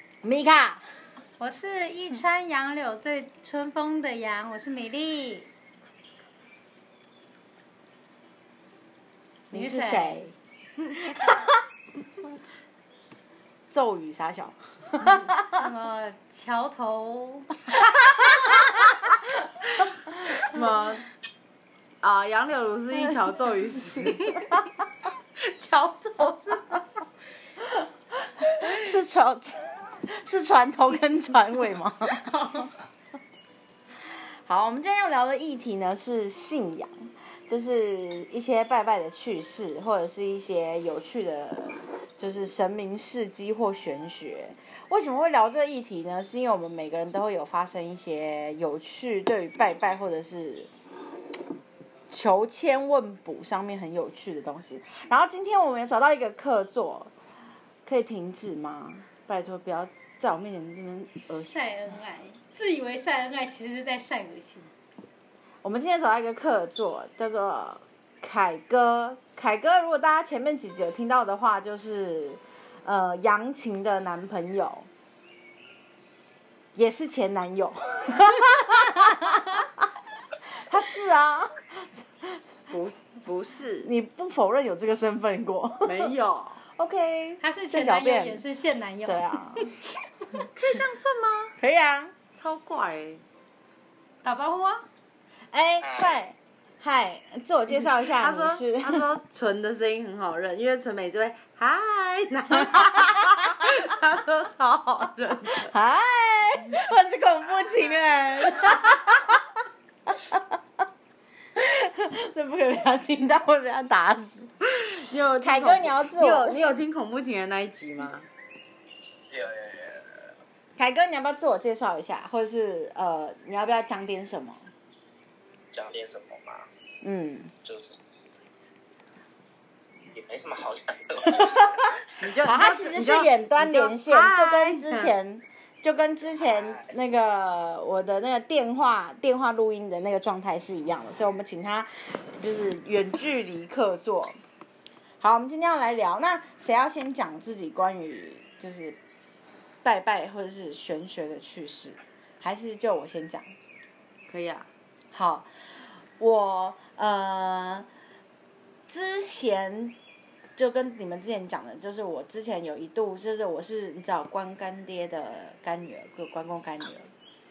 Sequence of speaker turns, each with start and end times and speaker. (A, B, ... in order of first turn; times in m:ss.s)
0:00.2-0:00.8 A
0:01.4-0:05.5 B
0:09.5-0:10.2 B
0:09.5-0:10.3 A
0:11.0-0:11.6 A
0:13.7-0:15.6 A
0:15.0-0:18.6 B
0:18.2-0:18.6 A
0:20.4-0:21.0 C
0:22.0-0:24.5 C
0:25.4-0:26.6 C
0:28.6-0:32.7 A
0:34.4-0:50.7 A
0:52.1-0:57.1 A
0:57.8-1:01.6 A
1:01.3-1:04.7 B
1:05.6-1:14.9 A
1:16.7-1:19.8 A
1:20.7-1:22.4 A
1:22.7-1:23.9 C
1:23.8-1:26.1 A
1:25.8-1:26.6 C
1:26.8-1:28.4 A
1:27.4-1:29.7 B
1:29.0-1:29.7 A
1:30.5-1:31.6 C
1:31.6-1:32.1 A
1:32.3-1:33.2 C
1:34.2-1:34.8 B
1:35.5-1:39.0 A
1:35.8-1:36.2 D
1:37.7-1:45.7 C
1:42.6-1:43.4 A
1:45.6-1:49.4 A
1:50.1-1:50.6 A
1:51.6-1:54.5 A
1:54.7-1:58.3 C
1:55.4-1:56.6 A
1:59.3-2:00.3 D
2:00.8-2:04.7 A
2:05.7-2:06.7 D
2:07.0-2:07.5 A
2:07.6-2:08.0 D
2:10.1-2:12.0 D
2:11.3-2:11.8 A
2:12.2-2:15.1 C
2:12.4-2:24.4 A
2:16.4-2:16.9 D
2:25.2-2:29.0 A
2:29.8-2:33.5 A
2:34.3-2:34.7 C
2:35.1-2:35.5 A
2:36.2-2:37.8 A
2:38.9-2:40.0 A
2:40.6-2:47.1 A